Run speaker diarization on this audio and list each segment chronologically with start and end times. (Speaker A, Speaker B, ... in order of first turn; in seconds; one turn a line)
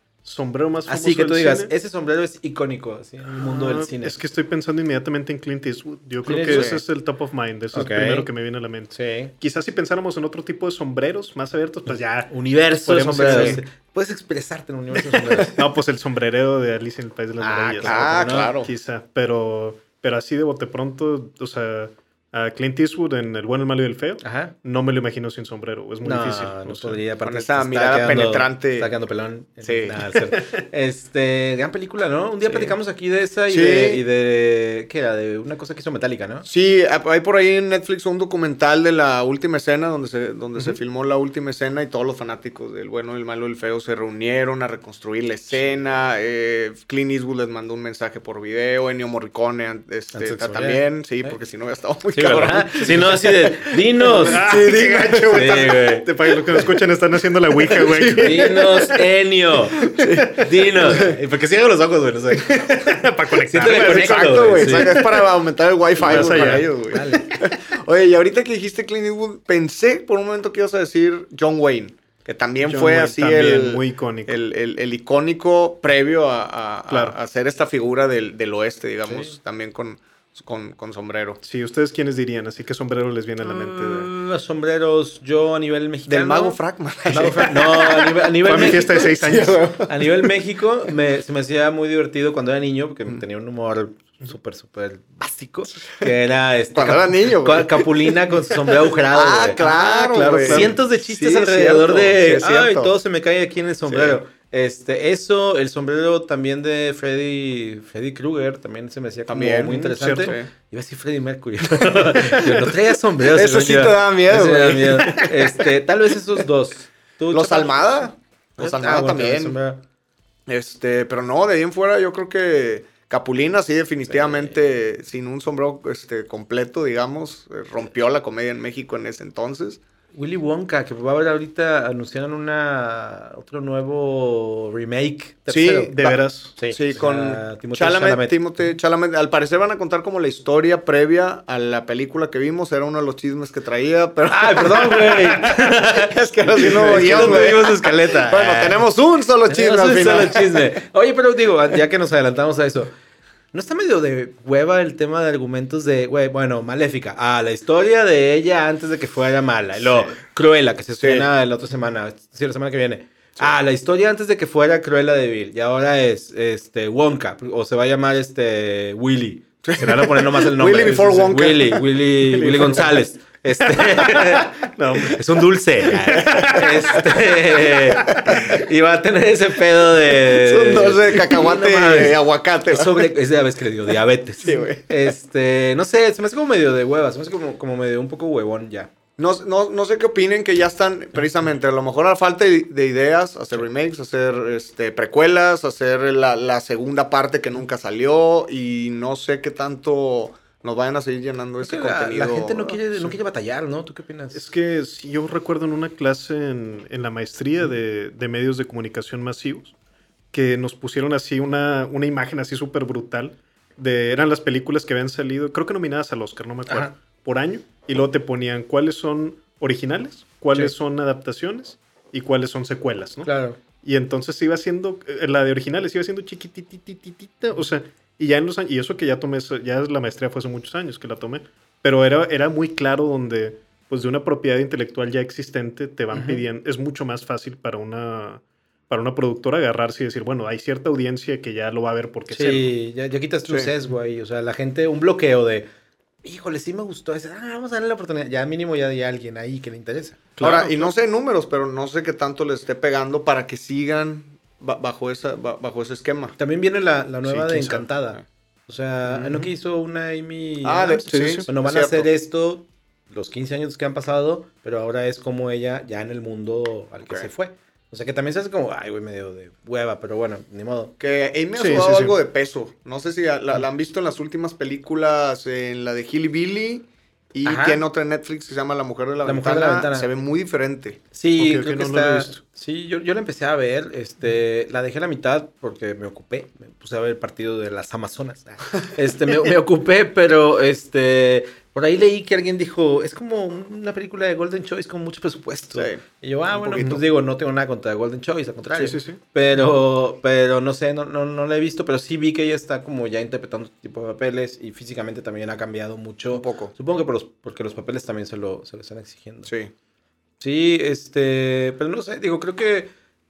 Speaker A: 0.2-1.7
Speaker B: 0.9-4.2
Speaker A: 3.3-13.6
Speaker B: 6.2-6.7
Speaker C: 6.5-6.8
Speaker B: 7.7-8.3
Speaker B: 8.9-9.3
Speaker B: 12.3-15.6
Speaker C: 13.2-13.6
Speaker A: 15.5-27.0
Speaker B: 17.4-18.7
Speaker C: 17.8-18.7
Speaker B: 24.2-24.6
Speaker B: 26.0-36.5
Speaker C: 27.2-28.9
Speaker C: 29.6-29.9
Speaker C: 32.5-32.7
Speaker C: 33.5-34.0
Speaker C: 36.5-53.3
Speaker B: 50.1-51.4
Speaker B: 52.1-54.4
Speaker C: 54.0-55.9
Speaker A: 54.0-59.0
Speaker B: 55.3-56.1
Speaker C: 57.7-58.9
Speaker B: 58.2-65.0
Speaker C: 59.8-61.1
Speaker A: 60.0-60.3
Speaker A: 62.8-65.3
Speaker C: 63.6-81.4
Speaker A: 66.0-67.2
Speaker B: 66.0-67.4
Speaker A: 72.6-74.4
Speaker A: 76.9-77.2
Speaker A: 81.4-84.1
Speaker B: 83.4-89.1
Speaker C: 86.1-87.6
Speaker A: 87.1-89.7
Speaker C: 88.6-89.9
Speaker B: 89.9-99.6
Speaker C: 96.8-98.1
Speaker C: 99.1-103.0
Speaker A: 99.6-100.8
Speaker B: 100.4-119.8
Speaker C: 103.9-104.2
Speaker C: 109.3-110.5
Speaker A: 109.7-110.3
Speaker C: 113.2-115.3
Speaker C: 117.3-119.6
Speaker C: 120.5-129.8
Speaker B: 124.1-124.5
Speaker B: 130.1-138.4
Speaker C: 135.5-136.1
Speaker A: 135.8-136.6
Speaker C: 136.7-150.7
Speaker B: 144.3-148.8
Speaker A: 146.6-147.5
Speaker B: 149.5-152.9
Speaker B: 153.5-188.9
Speaker C: 161.0-161.3
Speaker C: 169.7-171.8
Speaker A: 169.8-170.1
Speaker A: 172.3-172.9
Speaker A: 173.6-177.3
Speaker A: 177.9-178.3
Speaker C: 180.2-183.1
Speaker C: 184.4-184.9
Speaker C: 189.2-202.8
Speaker B: 201.6-204.4
Speaker A: 204.3-209.8
Speaker A: 210.3-223.3
Speaker B: 223.2-223.6
Speaker A: 223.8-242.7
Speaker B: 236.1-236.4
Speaker B: 242.3-245.7
Speaker B: 246.2-250.8
Speaker A: 250.4-250.7
Speaker C: 250.4-256.4
Speaker B: 256.4-270.9
Speaker A: 257.3-257.9
Speaker C: 257.6-258.2
Speaker C: 259.1-259.4
Speaker C: 260.6-262.1
Speaker A: 261.1-261.5
Speaker C: 271.0-281.0
Speaker A: 271.6-272.2
Speaker B: 277.4-277.8
Speaker B: 279.2-280.1
Speaker B: 281.1-309.5
Speaker A: 281.4-282.4
Speaker C: 295.7-296.0
Speaker C: 296.7-296.9
Speaker A: 296.7-297.0
Speaker A: 298.7-299.2
Speaker C: 306.3-306.7
Speaker B: 310.4-312.9